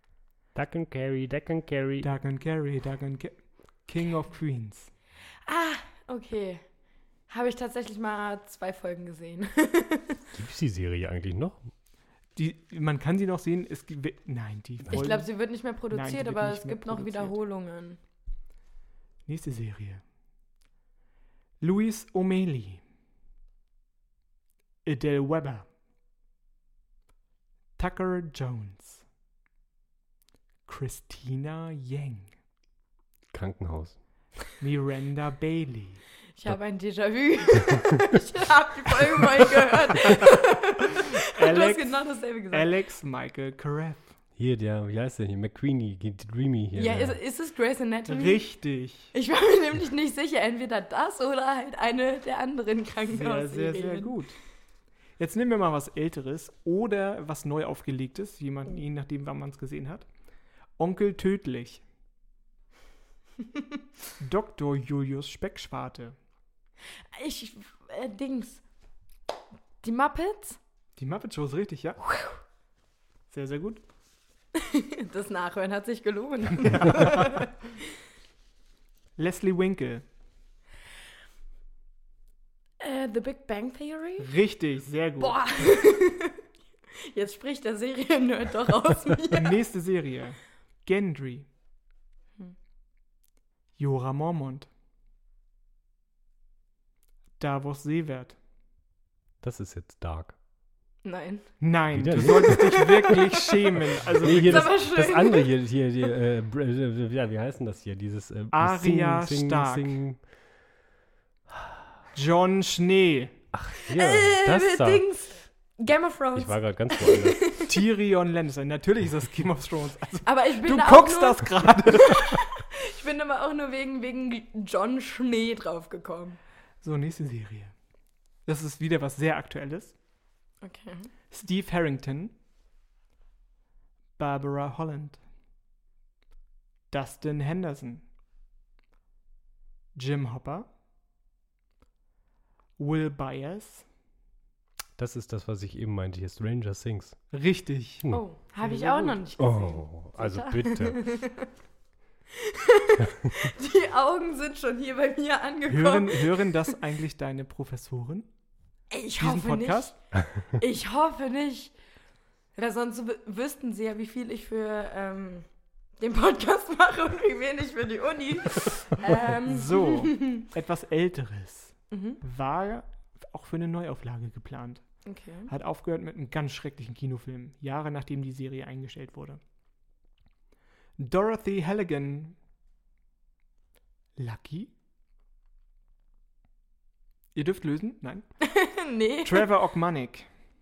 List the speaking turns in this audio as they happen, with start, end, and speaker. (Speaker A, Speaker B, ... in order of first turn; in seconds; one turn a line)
Speaker A: 0.6-2.1
Speaker B: 2.0-4.9
Speaker C: 5.5-6.6
Speaker C: 7.3-10.2
Speaker A: 10.3-11.7
Speaker B: 12.4-15.3
Speaker C: 14.9-18.0
Speaker B: 15.9-17.4
Speaker B: 19.3-20.0
Speaker B: 21.6-22.8
Speaker B: 24.9-25.7
Speaker B: 27.8-29.0
Speaker B: 30.7-32.3
Speaker A: 33.3-34.0
Speaker B: 34.6-36.0
Speaker C: 36.4-42.7
Speaker B: 41.0-44.1
Speaker A: 44.4-47.2
Speaker C: 46.8-48.4
Speaker B: 48.1-49.1
Speaker C: 49.1-54.2
Speaker B: 53.1-54.4
Speaker B: 55.2-60.1
Speaker B: 60.8-61.8
Speaker B: 64.2-66.2
Speaker C: 67.1-68.6
Speaker C: 69.8-70.6
Speaker B: 71.0-72.0
Speaker B: 73.3-73.8
Speaker C: 74.5-77.7
Speaker B: 76.6-77.5
Speaker B: 79.2-80.0
Speaker C: 82.8-84.3
Speaker B: 84.2-85.4
Speaker C: 85.2-86.4
Speaker C: 87.0-89.5
Speaker B: 89.3-91.5
Speaker B: 93.8-94.7
Speaker B: 97.4-98.4
Speaker A: 99.4-100.4
Speaker C: 101.0-101.5
Speaker B: 101.6-104.8
Speaker A: 101.9-102.9
Speaker C: 102.3-105.5
Speaker A: 104.2-110.2
Speaker B: 108.5-110.0
Speaker A: 111.5-111.8
Speaker B: 112.1-113.4
Speaker A: 113.5-115.0
Speaker C: 113.8-117.8
Speaker A: 116.3-117.5
Speaker B: 117.7-122.5
Speaker C: 120.2-126.4
Speaker B: 126.8-127.7
Speaker B: 128.5-129.9
Speaker C: 130.6-131.1
Speaker B: 131.3-132.3
Speaker B: 134.2-135.2
Speaker B: 136.9-138.0
Speaker B: 139.9-140.7
Speaker B: 142.8-143.9
Speaker A: 145.0-147.2
Speaker B: 147.3-149.2
Speaker C: 148.1-151.5
Speaker A: 149.4-151.0
Speaker C: 152.3-156.7
Speaker B: 155.7-158.3
Speaker C: 158.9-160.0
Speaker B: 159.2-159.9
Speaker C: 160.5-161.7
Speaker C: 162.6-165.5
Speaker C: 166.0-170.5
Speaker B: 169.2-174.8
Speaker C: 171.9-172.2
Speaker C: 175.1-175.5
Speaker B: 175.5-179.4
Speaker B: 181.0-182.4
Speaker B: 184.2-184.7
Speaker B: 187.3-188.3
Speaker C: 188.4-189.5
Speaker B: 189.2-190.3